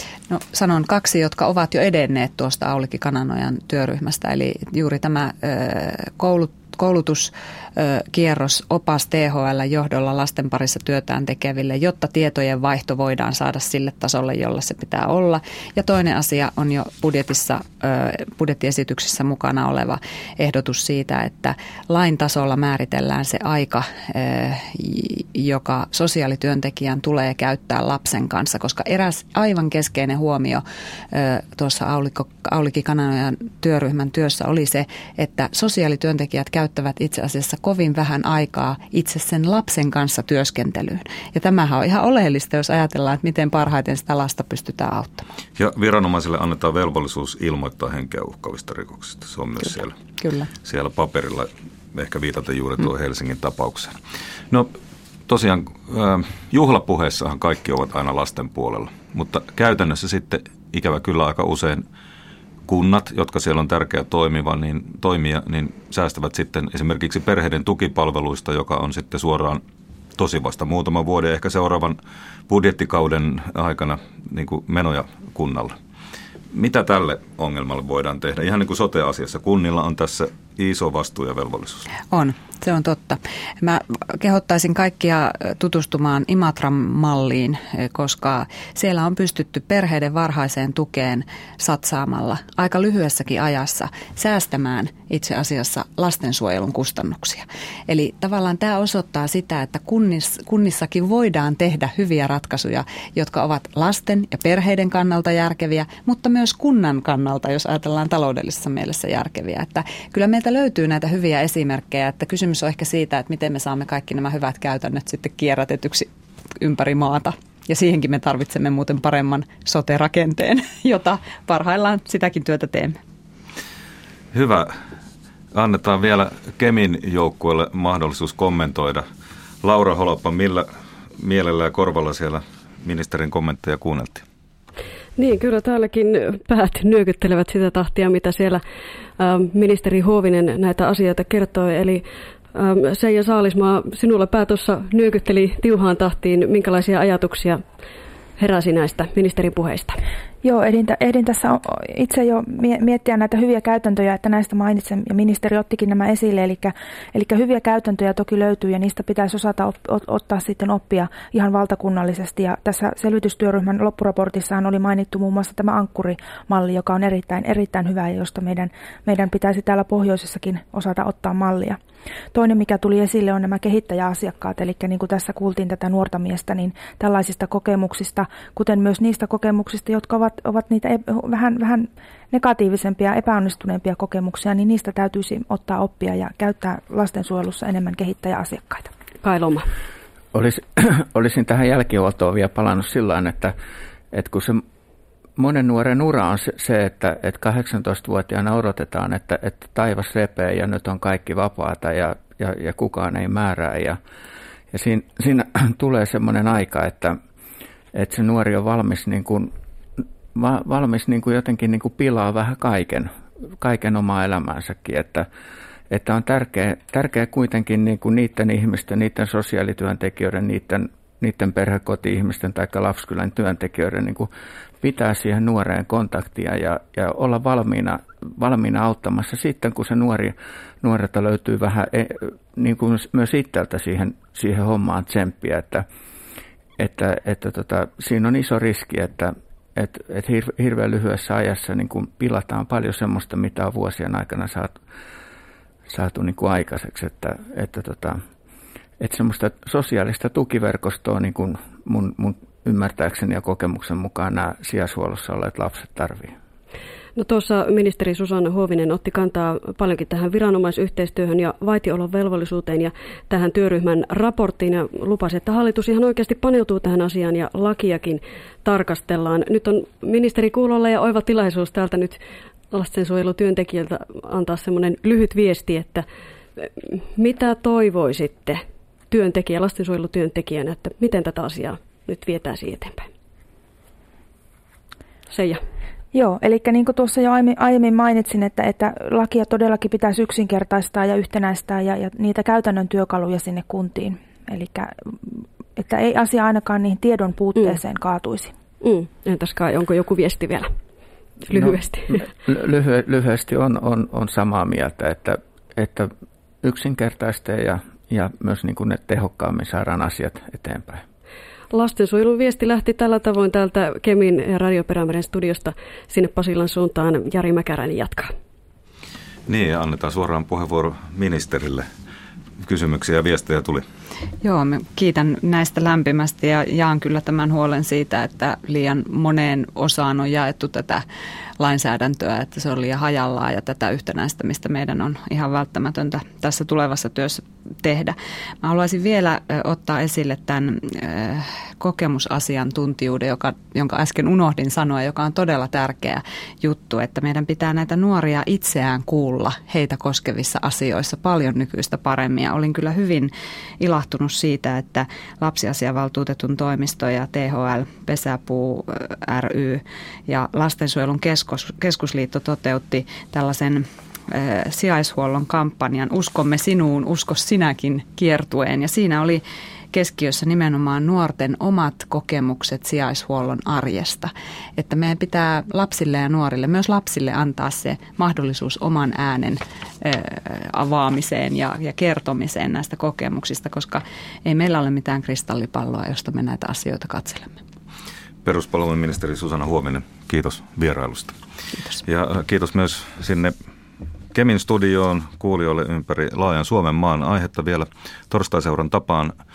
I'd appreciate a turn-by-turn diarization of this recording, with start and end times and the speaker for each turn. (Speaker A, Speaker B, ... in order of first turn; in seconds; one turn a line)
Speaker A: 0.3-45.2
Speaker B: 45.5-50.0
Speaker A: 50.2-50.5
Speaker B: 50.6-54.0
Speaker B: 55.3-61.9
Speaker B: 62.7-69.6
Speaker B: 70.2-75.8
Speaker B: 76.5-81.9
Speaker A: 82.1-116.1
Speaker A: 116.6-123.0
Speaker B: 124.3-124.7
Speaker B: 125.5-129.1
Speaker B: 129.6-134.2
Speaker C: 135.2-138.6
Speaker C: 139.2-147.6
Speaker C: 148.4-150.0
Speaker D: 150.4-171.8
Speaker D: 172.3-188.9
Speaker C: 189.2-189.7
Speaker E: 190.3-193.5
Speaker E: 194.1-194.6
Speaker E: 195.4-204.0
Speaker E: 204.7-207.2
Speaker E: 207.9-209.5
Speaker E: 210.3-215.2
Speaker E: 215.9-224.3
Speaker E: 224.8-235.8
Speaker E: 236.8-244.8
Speaker E: 245.9-248.2
Speaker E: 249.0-256.3
Speaker C: 257.1-276.1
Speaker C: 276.6-283.1
Speaker C: 285.3-285.6
Speaker D: 286.1-298.5
Speaker C: 298.8-300.7
Speaker C: 301.5-302.1
Speaker E: 301.5-306.1
Speaker E: 306.6-311.0
Speaker C: 311.7-318.3
Speaker B: 319.5-321.9
Speaker B: 322.6-323.8
Speaker A: 324.4-331.0
Speaker A: 331.6-387.6
Speaker B: 388.4-391.4
Speaker B: 392.0-393.5
Speaker B: 394.3-399.3